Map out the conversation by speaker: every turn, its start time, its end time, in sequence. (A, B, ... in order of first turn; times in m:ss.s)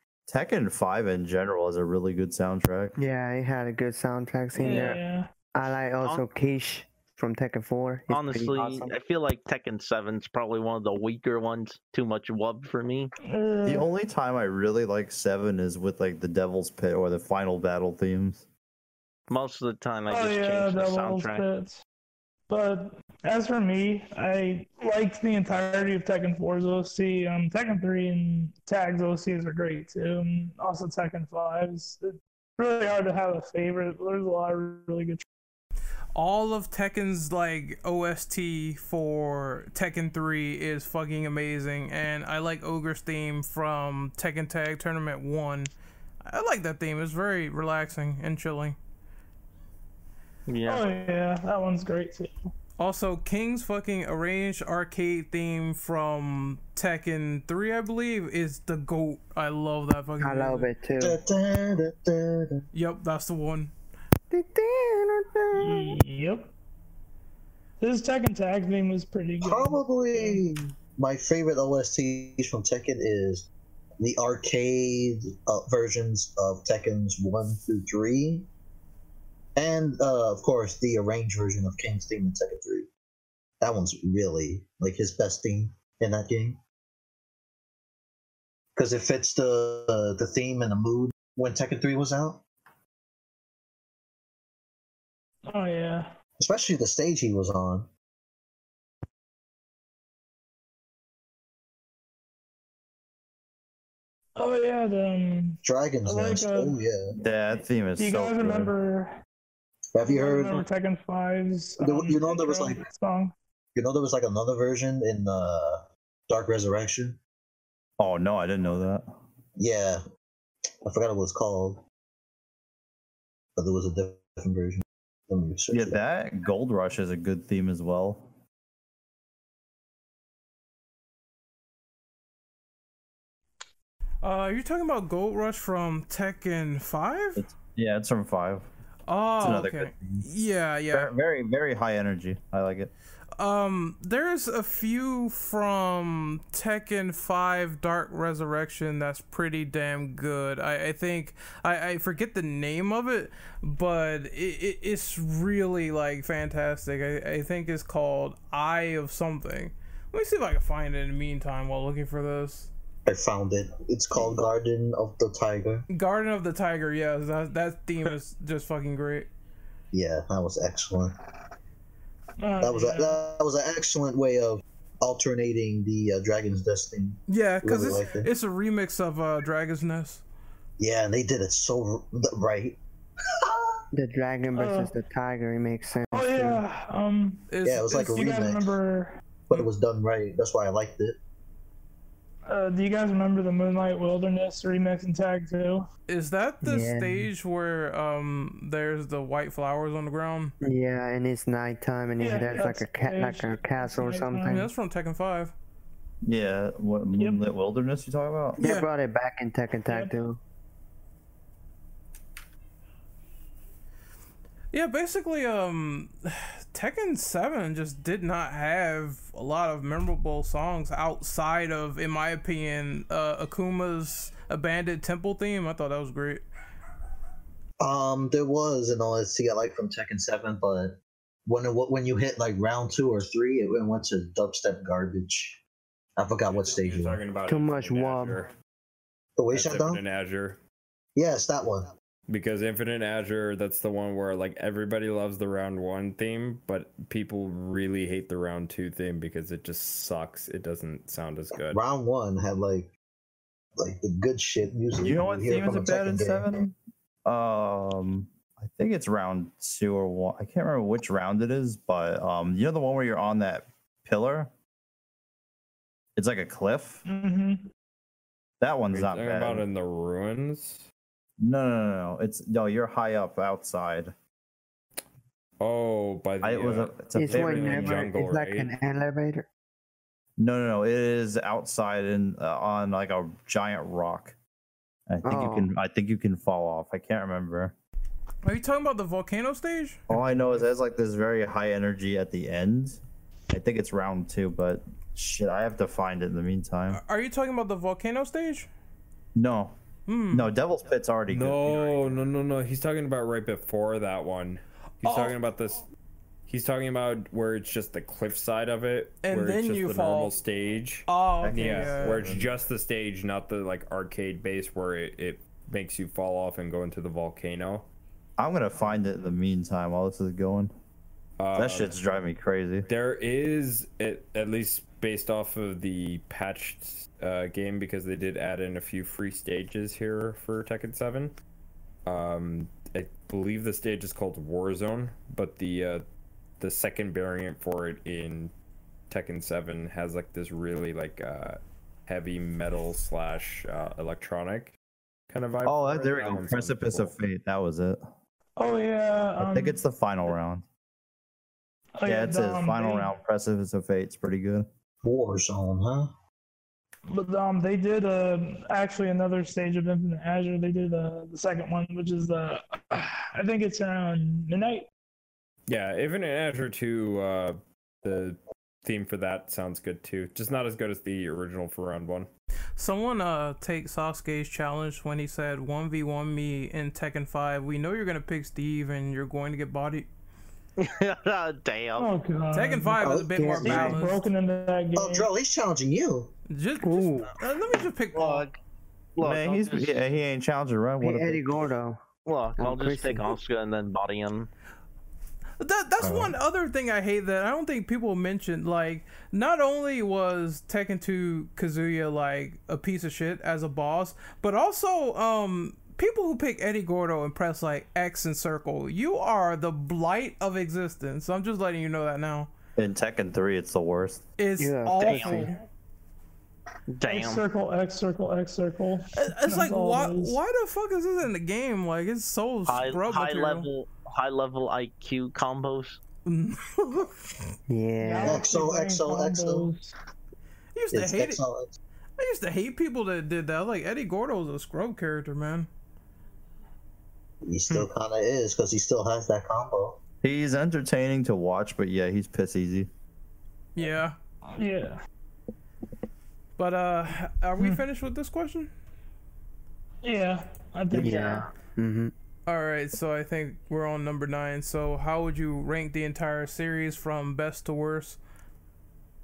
0:00.3-0:02.9 A
0:03.0-0:05.0 B
0:04.6-0:05.3 C
0:05.5-0:08.9 B
0:08.1-0:13.1 D
0:13.2-0:13.9 C
0:13.6-0:18.4 A
0:19.3-0:21.4 D
0:20.1-0:21.8 C
0:22.5-0:35.2 C
0:36.1-0:45.7 E
0:46.2-0:48.8 E
0:50.5-0:50.8 D
0:50.6-0:52.5 C
0:52.8-1:00.7 E
1:00.2-1:01.2 B
1:01.0-1:02.6 F
1:02.7-1:03.7 E
1:04.3-1:06.0 B
1:05.5-1:06.5 C
1:07.8-1:10.4 C
1:09.4-1:13.5 F
1:14.0-1:18.5 F
1:19.6-1:22.9 F
1:23.6-1:26.6 F
1:28.8-1:32.4 F
1:35.5-1:36.1 C
1:36.4-1:37.9 F
1:44.4-1:46.8 C
1:45.6-1:47.2 F
1:47.2-1:48.7 A
1:48.0-1:49.1 C
1:49.9-1:50.6 F
1:50.0-1:53.3 C
1:51.8-1:52.8 F
1:53.7-1:57.2 F
1:58.0-1:59.1 A
1:59.6-2:00.0 F
2:00.8-2:01.8 F
2:03.6-2:06.0 F
2:05.7-2:08.3 A
2:14.2-2:17.4 E
2:17.4-2:18.7 A
2:19.1-2:21.1 E
2:19.4-2:20.2 A
2:20.9-2:22.9 A
2:23.4-2:42.7 E
2:43.0-2:45.8 F
2:45.9-2:49.3 E
2:49.9-2:51.2 F
2:52.4-2:53.2 C
2:52.6-2:58.3 F
2:57.3-3:00.2 E
3:00.8-3:02.8 F
3:03.4-3:03.7 F
3:03.9-3:06.6 B
3:04.5-3:04.9 C
3:06.1-3:09.2 C
3:07.5-3:08.1 E
3:07.6-3:08.7 F
3:09.5-3:11.2 F
3:12.5-3:15.9 C
3:16.1-3:20.5 E
3:16.6-3:17.3 B
3:20.6-3:24.7 B
3:22.2-3:24.7 C
3:24.4-3:25.5 E
3:26.2-3:28.6 A
3:27.2-3:27.5 C
3:28.6-3:28.9 E
3:28.6-3:30.4 B
3:29.9-3:30.1 C
3:34.7-3:46.4 E
3:47.8-3:55.6 F
3:56.2-3:57.2 F
3:56.5-3:58.5 G
3:57.5-3:58.4 B
3:59.4-4:00.0 F
3:59.5-4:00.6 G
4:01.2-4:01.9 F
4:02.3-4:11.8 G
4:11.7-4:12.9 F
4:13.8-4:16.6 F
4:15.0-4:24.5 A
4:26.2-4:27.0 A
4:27.0-4:27.7 C
4:28.6-4:29.6 A
4:28.9-4:30.9 G
4:31.4-4:34.1 A
4:35.6-4:38.7 G
4:36.4-4:38.1 A
4:37.1-4:39.5 B
4:40.4-4:44.4 A
4:45.1-4:47.7 A
4:45.2-4:45.7 B
4:48.4-4:50.6 E
4:50.1-4:53.0 A
4:53.5-4:57.0 A
4:56.9-4:58.7 E
4:59.3-4:59.7 A
5:00.1-5:00.5 E
5:00.3-5:02.2 A
5:01.3-5:05.8 G
5:05.0-5:05.3 E
5:06.5-5:17.9 G
5:09.2-5:10.4 E
5:11.1-5:12.3 E
5:11.4-5:12.5 A
5:18.4-5:20.7 A
5:21.4-5:22.0 G
5:21.5-5:22.9 A
5:22.8-5:31.3 G
5:32.0-5:36.0 G
5:36.6-5:38.5 G
5:39.1-5:44.8 G
5:45.3-5:47.2 G
5:45.6-5:48.0 A
5:48.6-5:49.8 C
5:49.4-5:50.6 A
5:52.0-5:53.1 C
5:52.0-5:54.7 A
5:55.0-5:56.1 F
5:57.1-6:04.9 C
6:05.7-6:12.3 G
6:12.8-6:20.1 E
6:20.8-6:22.1 D
6:22.0-6:23.0 C
6:22.5-6:24.2 E
6:23.0-6:23.9 F
6:23.3-6:24.0 B
6:23.6-6:25.3 C
6:25.0-6:26.3 F
6:26.5-6:28.5 E
6:26.8-6:27.3 B
6:28.1-6:28.6 D
6:29.2-6:30.1 D
6:29.2-6:31.6 A
6:31.0-6:32.0 B
6:32.2-6:34.5 D
6:32.6-6:33.4 B
6:35.6-6:52.5 E
6:36.0-6:36.3 F
6:52.8-6:54.2 A
6:54.4-6:55.6 E
6:54.6-6:55.5 B
6:55.0-6:55.5 D
6:56.9-6:57.4 D
6:57.0-7:00.4 C
6:59.1-7:03.7 E
7:02.7-7:06.0 D
7:06.2-7:07.1 E
7:07.7-7:08.5 B
7:08.0-7:09.9 C
7:08.2-7:09.7 F
7:10.7-7:11.4 E
7:10.9-7:11.8 F
7:12.2-7:15.7 E
7:17.4-7:20.0 F
7:20.2-7:22.9 A
7:23.7-7:24.2 E
7:24.5-7:25.0 C
7:26.6-7:28.7 E
7:30.0-7:31.4 C
7:30.9-7:32.1 B
7:31.0-7:31.5 D
7:32.5-7:38.2 E